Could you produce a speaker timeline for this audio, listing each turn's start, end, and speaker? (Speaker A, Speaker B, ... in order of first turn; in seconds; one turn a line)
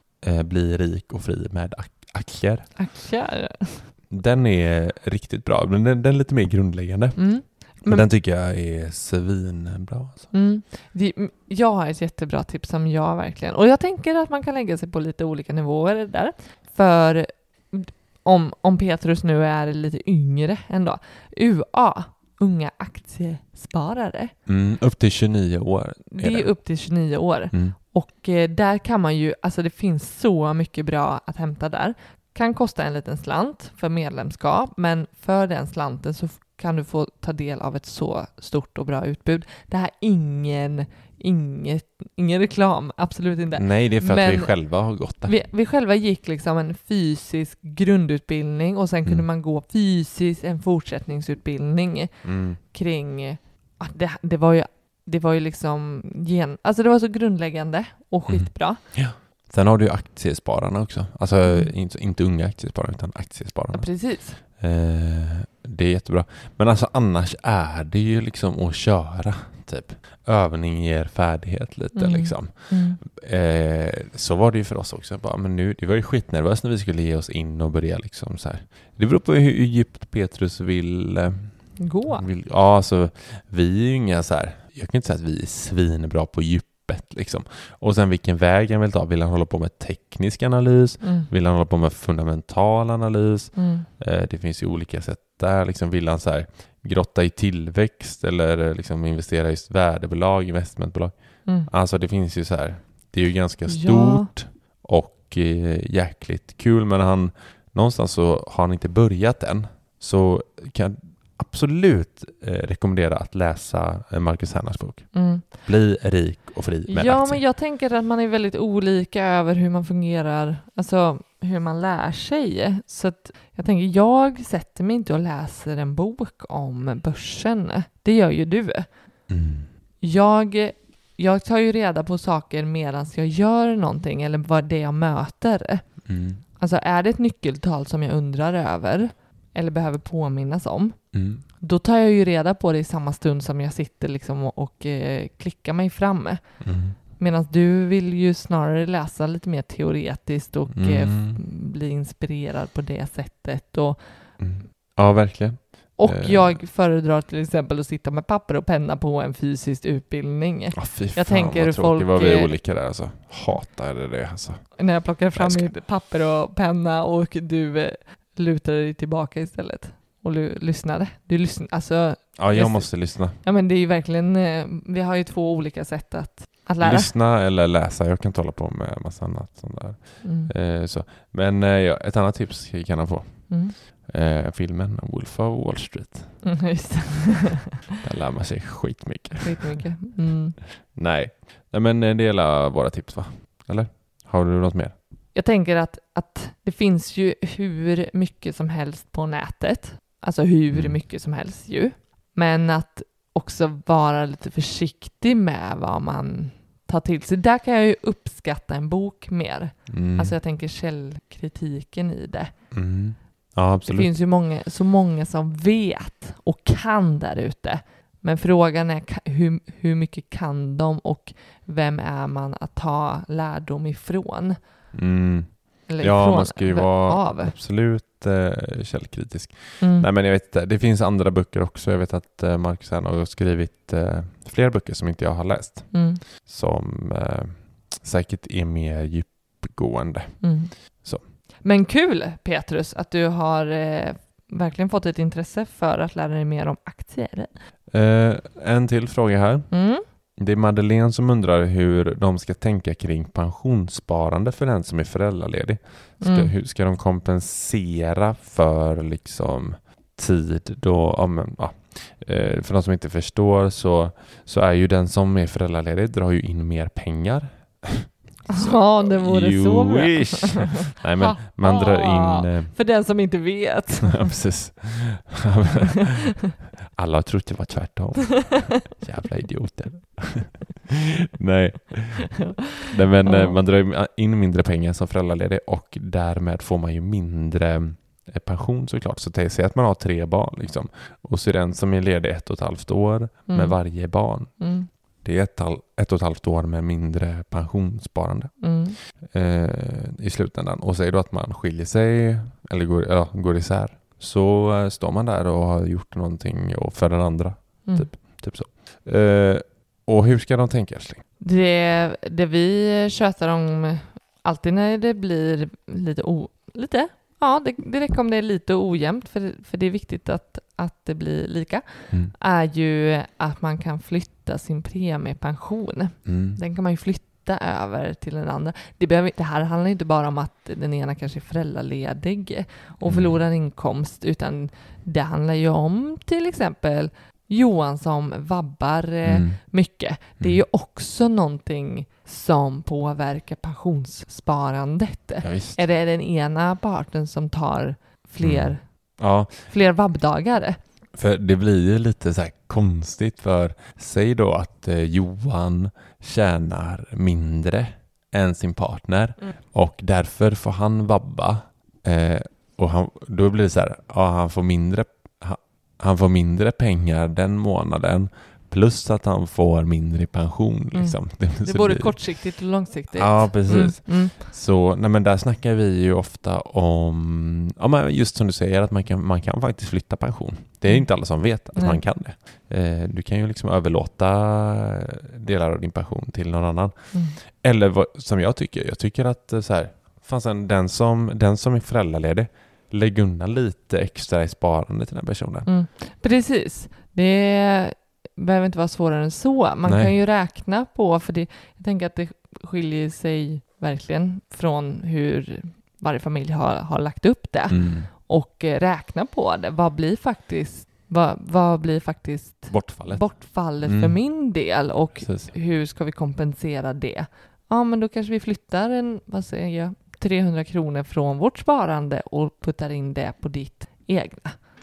Speaker A: 0.2-2.7
Speaker B: 2.8-3.9
Speaker A: 4.1-7.3
Speaker B: 7.2-8.1
Speaker A: 7.8-10.3
Speaker B: 10.3-24.3
Speaker A: 24.5-26.5
Speaker B: 26.1-44.5
Speaker A: 43.5-45.3
Speaker B: 45.2-52.1
Speaker A: 52.2-52.6
Speaker B: 52.6-58.8
Speaker A: 58.3-117.4
Speaker B: 61.5-61.7
Speaker B: 63.7-64.4
Speaker B: 71.9-73.0
Speaker B: 81.8-82.2
Speaker B: 91.0-91.3
Speaker B: 93.5-93.9
Speaker B: 103.7-104.3
Speaker B: 115.1-115.5
Speaker B: 116.9-128.9
Speaker A: 129.3-129.7
Speaker B: 130.0-135.9
Speaker A: 136.1-136.4
Speaker B: 136.6-141.0
Speaker A: 141.1-141.4
Speaker B: 141.6-146.6
Speaker A: 146.6-147.0
Speaker B: 147.2-154.0
Speaker A: 150.7-151.4
Speaker A: 154.4-156.6
Speaker B: 156.0-162.5
Speaker A: 160.7-164.8
Speaker B: 164.8-177.1
Speaker A: 165.3-165.7
Speaker A: 172.3-173.4
Speaker A: 176.8-186.4
Speaker B: 180.2-180.5
Speaker B: 183.5-183.7
Speaker B: 186.4-187.8
Speaker A: 188.0-189.8
Speaker B: 189.4-190.6
Speaker A: 190.7-194.9
Speaker B: 195.3-212.5
Speaker A: 200.7-201.0
Speaker A: 209.9-210.3
Speaker A: 212.7-214.1
Speaker B: 213.8-224.6
Speaker A: 224.9-240.5
Speaker B: 225.9-227.5
Speaker B: 229.8-230.1
Speaker B: 235.9-236.2
Speaker B: 240.4-240.7
Speaker B: 241.6-247.5
Speaker A: 247.9-249.7
Speaker B: 249.7-250.0
Speaker A: 250.4-272.7
Speaker B: 256.2-256.5
Speaker B: 268.5-274.3
Speaker A: 274.0-276.3
Speaker A: 276.9-294.5
Speaker B: 282.4-283.6
Speaker B: 293.5-293.8
Speaker B: 294.6-294.9
Speaker A: 295.2-298.6
Speaker B: 298.6-299.0
Speaker A: 299.2-311.2
Speaker B: 311.4-348.8
Speaker A: 326.2-326.6
Speaker A: 333.0-333.4
Speaker A: 339.2-339.6
Speaker A: 345.4-345.8
Speaker A: 348.4-349.7
Speaker B: 349.7-350.8
Speaker A: 351.1-372.1
Speaker B: 370.9-374.4
Speaker A: 373.1-395.7
Speaker B: 381.7-382.0
Speaker B: 395.6-424.6
Speaker A: 399.9-400.1
Speaker A: 407.7-408.1
Speaker A: 412.7-414.2
Speaker A: 415.2-415.5